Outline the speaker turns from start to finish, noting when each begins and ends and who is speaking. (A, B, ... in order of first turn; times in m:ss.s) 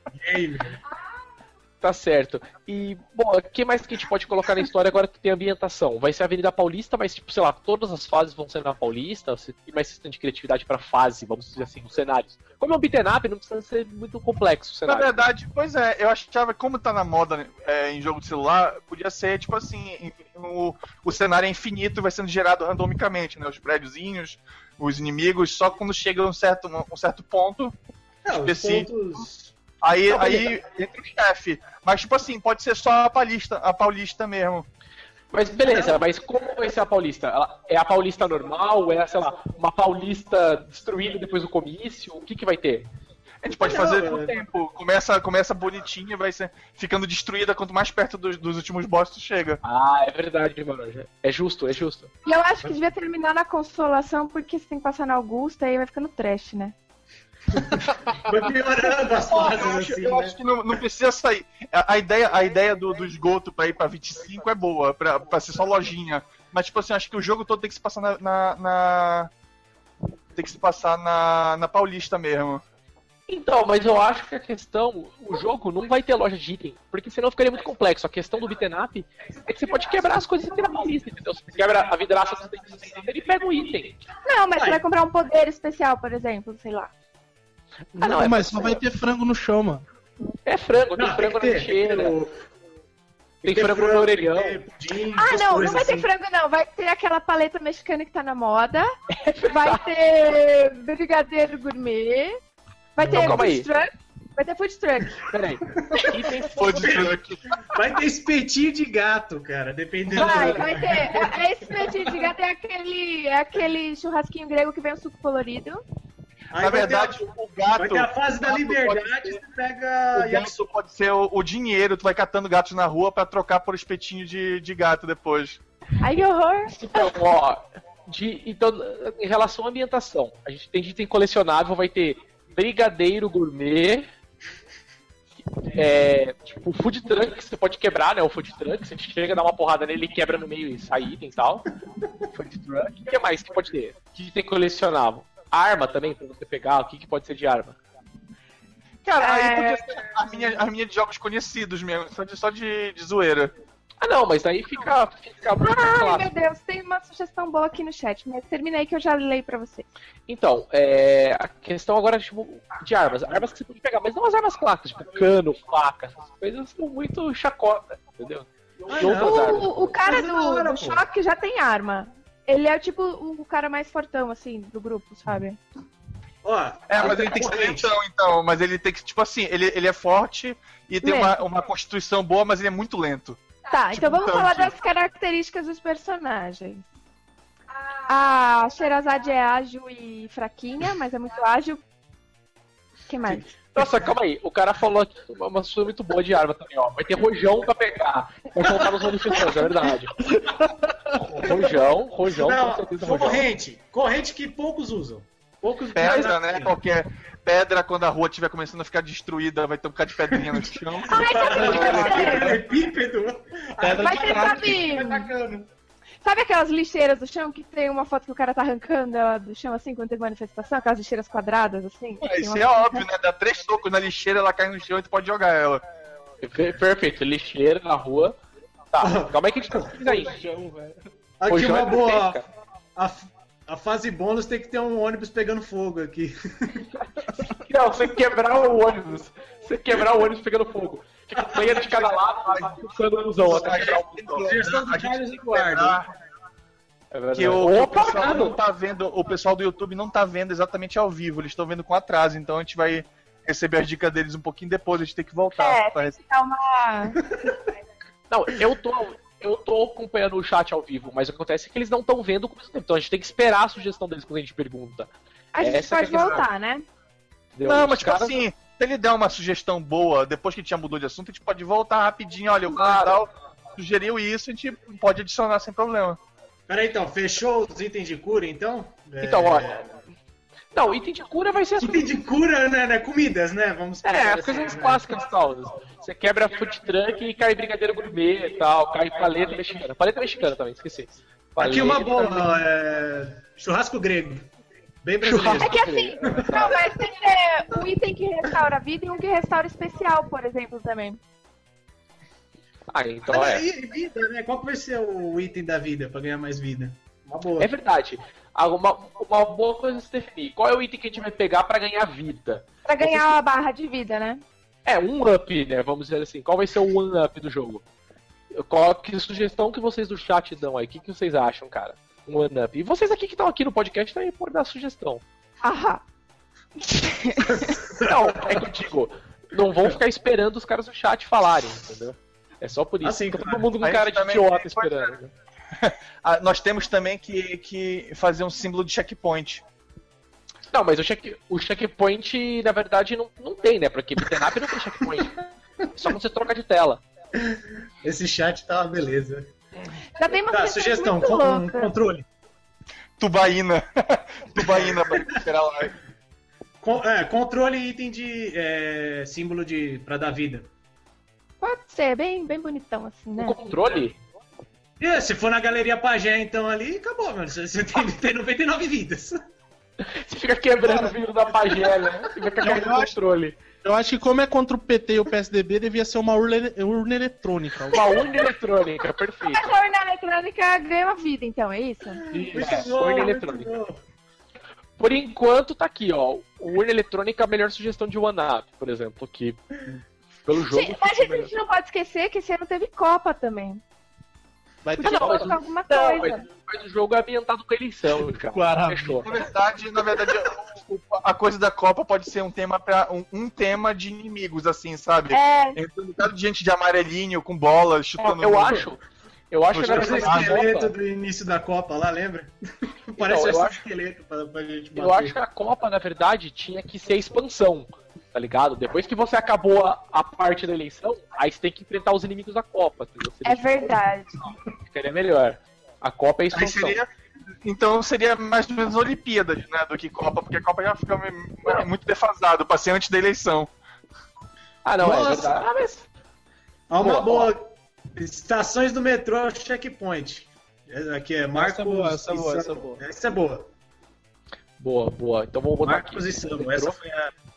0:00.2-0:00.8 A
0:01.8-0:15.3 B
0:14.8-0:27.8 C
0:28.2-0:29.5 A
0:28.3-0:29.0 C
0:29.8-0:34.6 C
0:30.1-0:30.5 A
0:35.3-0:42.9 B
0:43.4-0:49.6 C
0:43.6-0:44.3 A
0:49.6-0:52.1 B
0:52.2-0:56.7 D
0:57.5-1:00.4 A
0:59.3-1:09.3 C
1:10.3-1:12.6 C
1:13.3-1:24.0 B
1:24.2-1:26.9 D
1:24.6-1:24.8 A
1:28.0-1:28.8 B
1:28.0-1:29.8 E
1:30.4-1:32.2 B
1:31.0-1:32.4 A
1:33.4-1:34.6 B
1:33.4-1:36.1 A
1:35.2-1:38.9 D
1:39.1-1:39.8 B
1:39.5-1:42.4 D
1:43.0-1:45.3 D
1:43.0-1:43.4 A
1:43.1-1:43.7 B
1:45.3-1:47.2 B
1:45.7-1:46.1 A
1:46.5-1:47.6 C
1:46.7-1:52.2 A
1:50.1-1:55.8 D
1:50.2-1:50.7 B
1:56.5-2:00.6 A
1:56.6-1:59.4 C
2:00.1-2:05.6 C
2:06.0-2:07.1 D
2:06.7-2:14.1 B
2:15.6-2:21.7 B
2:22.3-2:27.8 B
2:29.0-2:33.5 C
2:29.2-2:30.1 D
2:34.0-2:36.3 B
2:35.6-2:39.8 D
2:40.3-2:49.9 B
2:48.9-2:51.0 A
2:49.0-2:55.6 D
2:56.4-2:57.9 A
2:56.9-3:03.4 C
3:01.0-3:01.4 D
3:03.7-3:06.8 D
3:03.9-3:04.7 C
3:08.0-3:11.8 D
3:13.1-3:13.5 D
3:13.7-3:20.2 B
3:20.3-3:21.1 E
3:21.2-3:23.4 B
3:22.3-3:26.7 A
3:25.9-3:32.6 C
3:26.0-3:26.3 B
3:30.3-3:35.7 A
3:31.0-3:32.6 D
3:31.7-3:32.6 E
3:31.8-3:32.1 B
3:33.8-3:35.2 E
3:34.0-3:35.3 D
3:36.2-3:43.0 D
3:42.2-3:45.8 C
3:46.4-3:48.4 B
3:48.9-3:50.3 B
3:49.0-3:49.9 A
3:50.0-3:51.0 E
3:51.4-3:52.4 A
3:51.5-3:52.4 B
3:53.0-3:56.9 A
3:57.4-4:04.5 B
4:01.4-4:02.1 A
4:03.4-4:06.1 C
4:03.5-4:06.0 A
4:07.1-4:08.6 B
4:07.3-4:16.2 C
4:15.5-4:17.2 D
4:18.3-4:26.4 B
4:25.5-4:26.8 D
4:27.6-4:28.4 B
4:27.6-4:36.2 C
4:32.7-4:33.2 B
4:36.7-4:39.8 A
4:39.2-4:40.0 B
4:40.7-4:42.0 B
4:41.8-4:45.0 A
4:44.0-4:52.6 B
4:51.6-4:54.5 A
4:55.0-4:56.7 A
4:55.2-4:56.8 B
4:55.6-5:01.2 D
5:02.9-5:03.6 B
5:03.3-5:07.7 A
5:07.6-5:13.3 B
5:12.8-5:14.4 D
5:14.8-5:17.8 B
5:18.5-5:25.2 B
5:25.6-5:26.0 D
5:26.8-5:27.8 D
5:27.5-5:28.6 A
5:28.0-5:35.3 B
5:33.0-5:33.7 A
5:33.8-5:35.1 C
5:35.8-5:39.6 C
5:40.7-5:47.0 B
5:47.4-5:49.5 A
5:50.2-5:51.9 D
5:50.5-5:52.2 A
5:53.2-5:55.9 C
5:54.6-5:55.4 A
5:56.8-6:00.7 A
6:01.6-6:03.6 D
6:03.4-6:04.2 B
6:05.0-6:09.4 A
6:10.0-6:13.6 B
6:12.6-6:13.1 E
6:12.6-6:13.0 C
6:13.8-6:18.0 E
6:17.9-6:19.6 B
6:19.5-6:22.2 D
6:22.3-6:24.0 A
6:22.3-6:23.7 B
6:22.3-6:22.8 E
6:25.0-6:29.8 B
6:30.4-6:31.5 B
6:30.5-6:33.8 D
6:34.8-6:35.5 E
6:35.0-6:36.4 D
6:35.0-6:39.3 B
6:38.5-6:39.3 E
6:39.2-6:48.9 C
6:45.3-6:45.8 D
6:48.2-6:50.9 B
6:49.7-6:50.6 C
6:49.8-6:55.4 A
6:53.2-6:53.8 B
6:55.0-7:04.0 B
7:03.4-7:04.4 D
7:04.8-7:07.0 B
7:06.5-7:07.1 C
7:07.6-7:13.7 C
7:14.8-7:16.1 B
7:15.0-7:15.5 A
7:16.9-7:23.7 A
7:17.0-7:17.5 B
7:21.5-7:23.0 E
7:24.8-7:27.0 B
7:25.8-7:27.3 A